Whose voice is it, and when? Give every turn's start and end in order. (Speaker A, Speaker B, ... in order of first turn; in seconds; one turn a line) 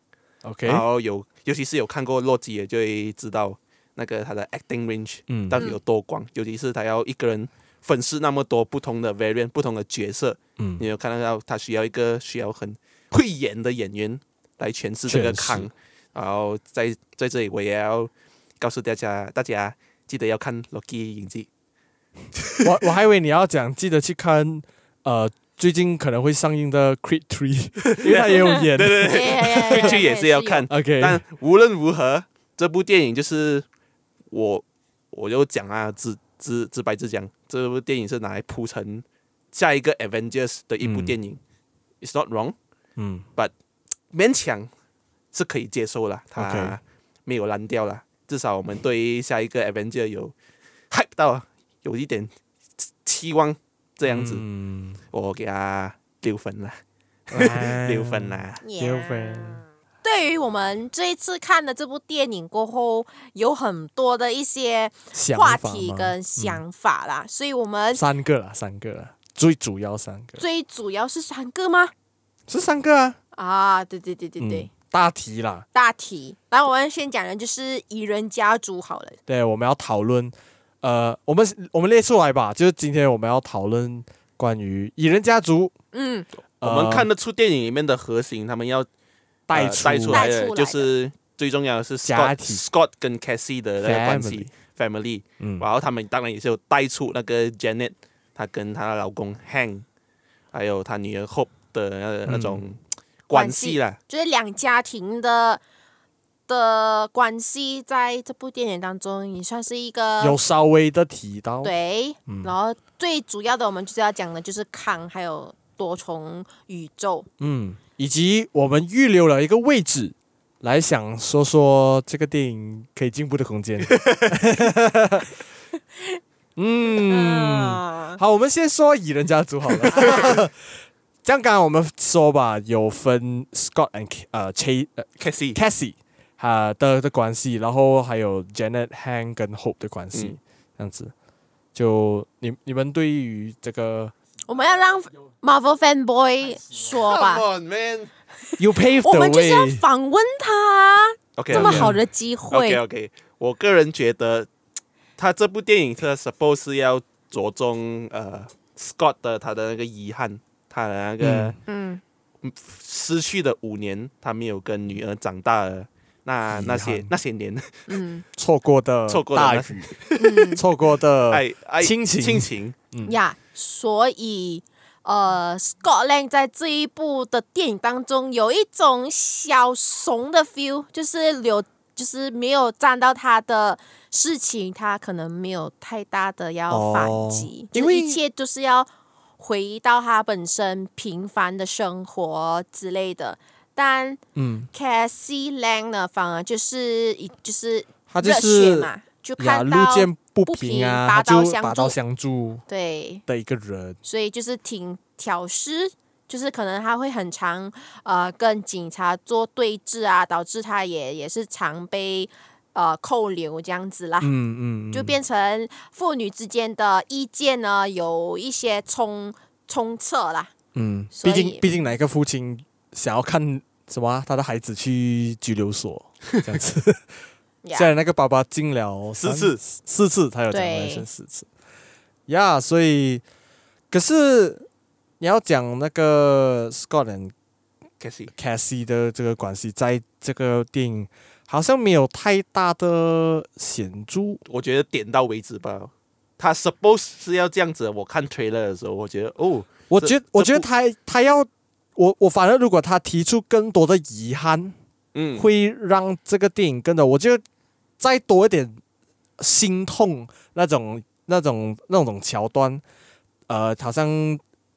Speaker A: 0.4-0.8
Speaker B: 0.6-21.5
Speaker A: 5.3-5.6
Speaker A: 10.6-10.8
Speaker A: 15.1-15.7
Speaker B: 22.4-22.7
Speaker A: 22.6-29.9
Speaker B: 27.8-33.6
Speaker C: 28.5-30.7
Speaker A: 30.7-31.2
Speaker B: 34.3-41.4
Speaker A: 40.8-41.2
Speaker B: 42.0-42.5
Speaker A: 43.0-43.2
Speaker B: 44.1-44.7
Speaker B: 45.3-50.3
Speaker A: 46.4-46.8
Speaker B: 50.9-52.3
Speaker B: 53.0-54.4
Speaker A: 54.0-55.0
Speaker B: 55.1-56.8
Speaker B: 57.3-58.6
Speaker A: 57.3-59.6
Speaker C: 58.6-68.0
Speaker A: 65.1-66.6
Speaker A: 67.9-70.4
Speaker C: 70.4-71.9
Speaker A: 72.5-73.2
Speaker C: 73.3-74.7
Speaker A: 74.4-75.7
Speaker C: 75.7-79.2
Speaker A: 79.3-85.7
Speaker C: 85.9-86.3
Speaker A: 86.6-87.1
Speaker B: 86.6-88.9
Speaker A: 89.5-90.3
Speaker B: 89.5-99.8
Speaker C: 90.1-90.9
Speaker A: 92.0-92.6
Speaker A: 93.8-94.5
Speaker A: 95.4-95.7
Speaker B: 100.5-104.0
Speaker A: 102.2-102.6
Speaker C: 103.3-105.6
Speaker C: 106.5-110.4
Speaker A: 110.2-111.7
Speaker C: 111.6-117.3
Speaker A: 112.3-112.5
Speaker A: 117.4-125.3
Speaker B: 123.9-124.3
Speaker A: 126.5-130.6
Speaker C: 127.0-128.2
Speaker C: 129.9-130.3
Speaker A: 131.2-141.1
Speaker B: 135.2-135.6
Speaker A: 141.7-144.1
Speaker C: 144.5-147.4
Speaker B: 146.8-148.1
Speaker A: 148.6-149.8
Speaker C: 149.0-152.8
Speaker B: 151.4-151.9
Speaker A: 151.5-152.0
Speaker B: 152.5-154.5
Speaker B: 155.2-161.6
Speaker A: 161.2-161.6
Speaker C: 161.7-162.0
Speaker B: 162.4-168.0
Speaker A: 166.5-167.1
Speaker C: 167.9-168.2
Speaker A: 168.3-173.2
Speaker B: 169.1-170.5
Speaker C: 170.2-170.6
Speaker B: 171.3-172.8
Speaker C: 173.1-194.2
Speaker A: 186.7-188.2
Speaker A: 194.3-194.7
Speaker C: 194.7-201.9
Speaker A: 198.1-202.6
Speaker C: 202.7-203.2
Speaker A: 203.3-204.0
Speaker C: 204.0-214.3
Speaker A: 214.2-215.2
Speaker C: 214.9-220.5
Speaker A: 220.7-227.1
Speaker C: 221.1-221.6
Speaker C: 227.6-227.9
Speaker A: 227.7-231.5
Speaker B: 229.2-229.6
Speaker C: 230.5-231.1
Speaker A: 232.3-233.2
Speaker A: 233.9-234.7
Speaker A: 235.2-237.3
Speaker B: 238.0-238.3
Speaker A: 238.3-244.4
Speaker B: 244.5-250.7
Speaker A: 249.9-254.8
Speaker B: 255.1-255.4
Speaker A: 255.3-257.4
Speaker A: 258.0-258.8
Speaker A: 259.4-262.8
Speaker A: 263.5-264.4